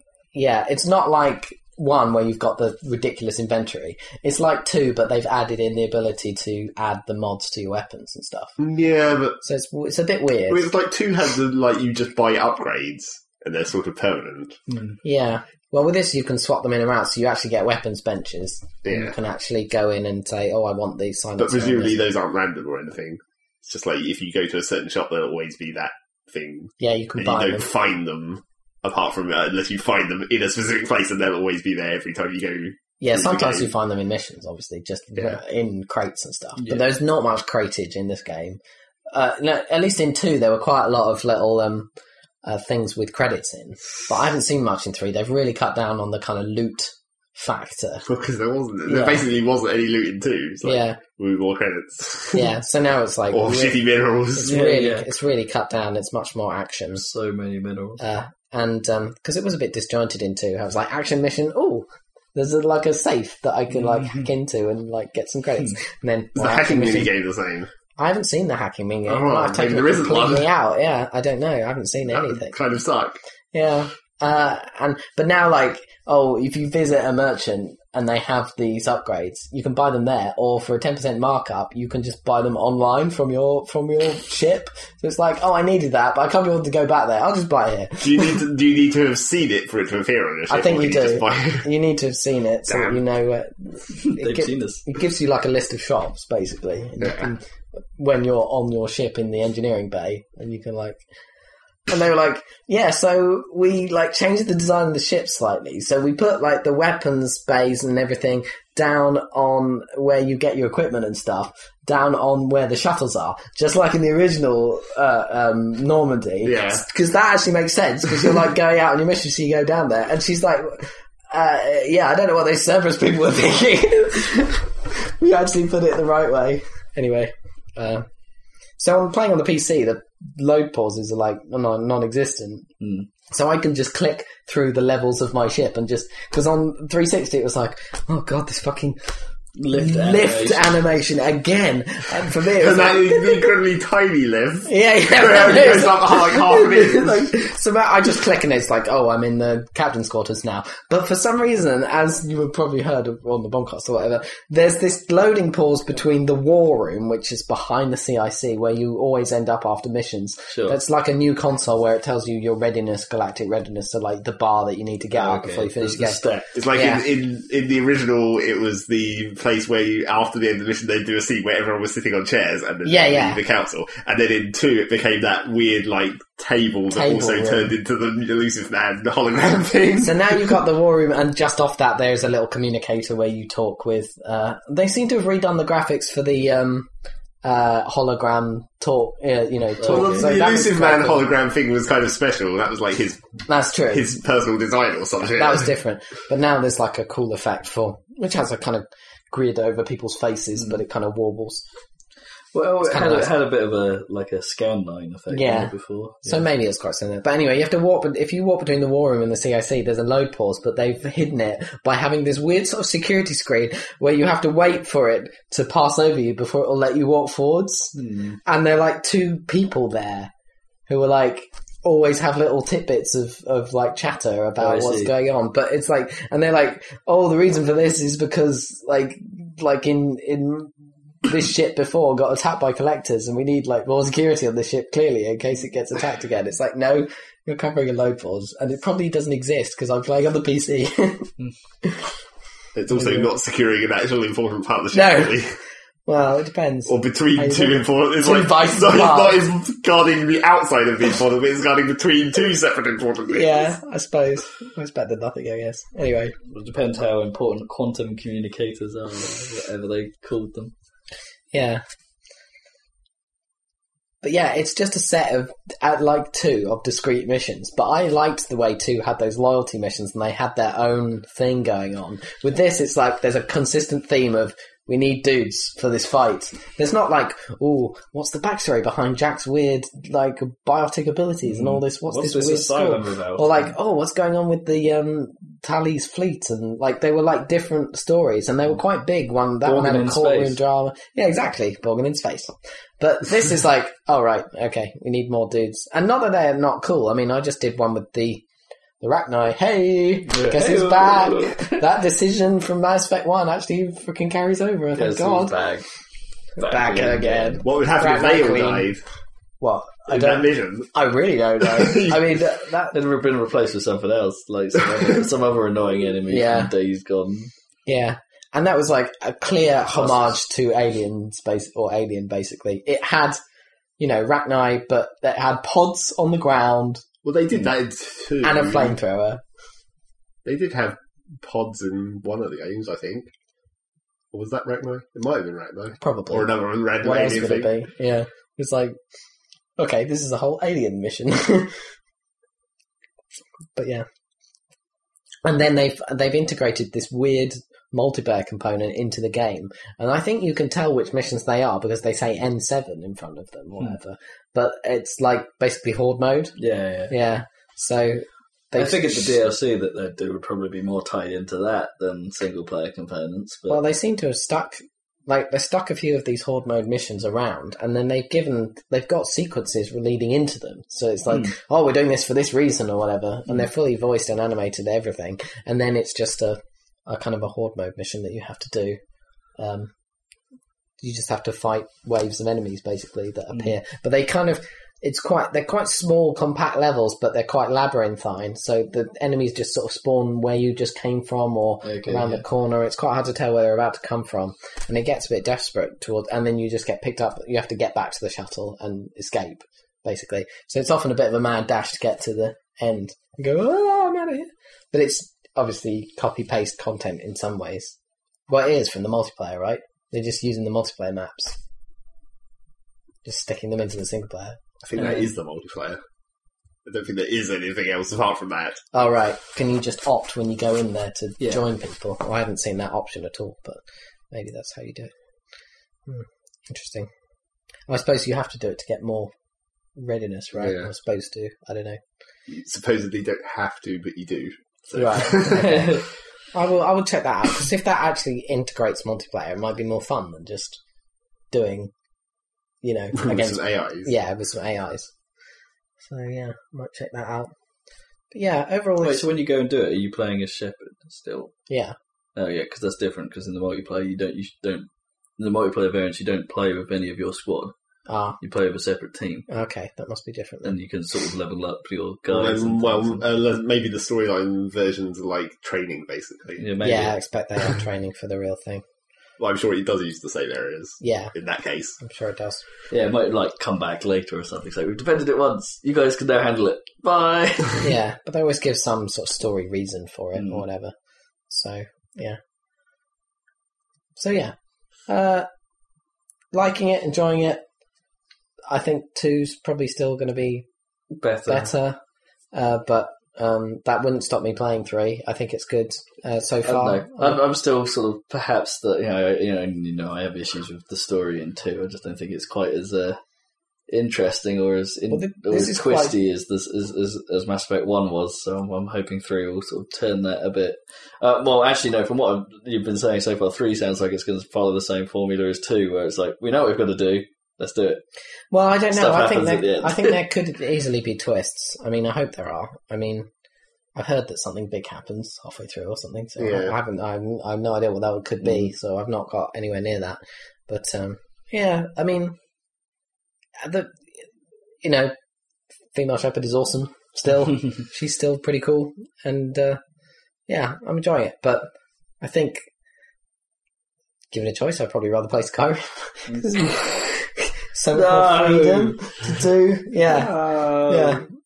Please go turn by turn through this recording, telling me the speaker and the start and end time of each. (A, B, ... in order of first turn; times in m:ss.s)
0:00.3-0:08.6 A
0:08.6-0:09.4 B
0:09.4-0:10.7 A
0:10.5-0:14.6 B
0:14.7-0:15.0 C
0:15.0-0:22.0 A
0:18.8-0:19.1 B
0:21.4-0:33.7 B
0:26.8-0:27.7 A
0:33.0-0:38.6 A
0:36.6-0:36.8 C
0:39.1-0:41.9 A
0:42.4-0:48.0 A
0:48.0-0:52.5 B
0:48.9-0:49.2 A
0:50.6-0:51.0 A
0:52.3-0:53.8 A
0:53.3-0:54.6 B
0:54.4-0:57.0 A
0:54.4-0:55.1 C
0:57.0-0:58.0 C
0:58.0-1:07.1 A
1:03.7-1:04.3 C
1:06.4-1:07.7 B
1:08.0-1:12.5 A
1:09.1-1:10.5 B
1:12.1-1:13.2 B
1:13.5-1:28.4 A
1:28.0-1:31.6 B
1:30.5-1:37.4 A
1:32.7-1:33.0 B
1:34.0-1:34.8 C
1:37.0-1:37.3 B
1:38.0-1:41.0 A
1:41.9-2:08.0 A
1:56.4-1:56.8 B
2:08.8-2:12.7 A
2:12.8-2:13.1 C
2:13.3-2:19.0 A
2:19.6-2:20.8 C
2:19.7-2:23.5 A
2:22.6-2:27.3 B
2:24.6-2:46.2 A
2:40.5-2:40.8 C
2:45.1-2:46.5 C
2:46.5-3:00.6 B
2:46.7-2:47.0 A
2:52.8-2:53.4 A
2:56.9-2:57.7 A
3:00.0-3:06.9 A
3:07.4-3:11.3 A
3:09.8-3:10.4 C
3:09.8-3:13.2 B
3:13.5-3:14.2 A
3:13.9-3:15.7 B
3:15.3-3:21.6 A
3:22.5-3:26.4 C
3:22.8-3:23.3 A
3:25.3-3:25.7 A
3:26.2-3:40.3 A
3:38.0-3:38.4 C
3:40.9-3:50.7 A
3:44.6-3:45.1 C
3:51.2-4:01.3 A
4:02.8-4:05.5 B
4:02.9-4:03.3 A
4:04.9-4:05.4 A
4:06.0-4:09.4 A
4:06.9-4:13.6 B
4:13.3-4:16.3 A
4:16.5-4:20.7 C
4:21.5-4:21.8 A
4:24.2-4:58.4 A
4:41.4-4:43.7 C
4:49.6-4:50.6 C
4:59.0-5:05.6 A
5:00.3-5:01.8 C
5:05.0-5:05.8 C
5:06.6-5:07.6 C
5:06.6-5:08.9 A
5:07.6-5:09.0 B
5:09.6-5:13.0 A
5:10.1-5:10.9 B
5:11.6-5:12.4 B
5:12.9-5:17.5 C
5:16.2-5:16.7 A
5:17.9-5:23.4 A
5:24.0-5:27.0 A
5:27.2-5:29.0 B
5:28.4-5:29.4 A
5:30.4-5:33.3 B
5:34.3-5:37.7 B
5:36.0-5:36.5 A
5:37.0-5:39.0 A
5:39.8-5:41.8 A
5:43.8-5:44.0 A
5:45.4-5:56.6 A
5:56.6-5:57.1 C
5:57.1-5:59.4 A
5:58.7-6:03.8 C
6:03.7-6:19.0 A
6:19.6-6:19.9 A
6:21.0-6:48.0 A
6:31.8-6:32.4 C
6:48.5-6:51.6 A
6:53.2-6:54.6 A
6:54.8-6:56.0 B
6:55.0-6:55.2 C
6:56.8-6:58.8 B
6:58.9-7:03.8 A
7:04.3-7:05.1 A
7:06.1-7:07.1 A
7:07.9-7:09.3 A
7:10.0-7:12.0 A
7:10.6-7:10.9 B
7:12.5-7:15.8 B
7:14.9-7:16.0 A
7:15.4-7:16.0 C
7:16.5-7:20.8 A
7:21.5-7:21.9 A
7:22.8-7:25.1 A
7:23.1-7:24.1 B
7:26.0-7:27.5 A
7:28.3-7:29.2 A
7:29.0-7:31.5 C
7:31.7-7:31.9 A
7:32.4-7:37.7 C
7:38.1-7:38.4 A
7:38.4-7:39.5 C
7:39.5-7:40.8 A
7:40.6-7:43.2 C
7:42.3-7:46.6 B
7:46.6-7:47.1 C
7:46.8-7:48.8 A
7:49.4-7:52.0 B
7:51.0-7:51.3 A
7:52.0-7:52.6 A
7:52.9-7:57.9 C
7:57.8-8:00.9 A
8:00.4-8:00.6 C
8:01.5-8:02.4 A
8:04.2-8:04.5 A
8:05.1-8:05.5 A
8:06.5-8:07.6 A
8:08.7-8:10.6 A
8:11.2-8:11.7 C
8:11.5-8:12.0 A
8:12.5-8:17.4 A
8:16.6-8:23.2 C
8:23.9-8:38.0 C
8:25.1-8:26.1 A
8:38.5-8:43.3 A
8:38.9-8:40.2 C
8:44.0-8:52.4 A
8:46.4-8:46.7 B
8:48.4-8:48.7 C
8:53.6-8:54.0 A
8:54.8-8:55.1 A
8:55.9-8:59.8 A
9:00.5-9:01.7 A
9:02.2-9:02.6 A
9:04.3-9:11.2 A
9:06.3-9:06.8 C
9:07.9-9:09.1 C
9:10.0-9:11.2 C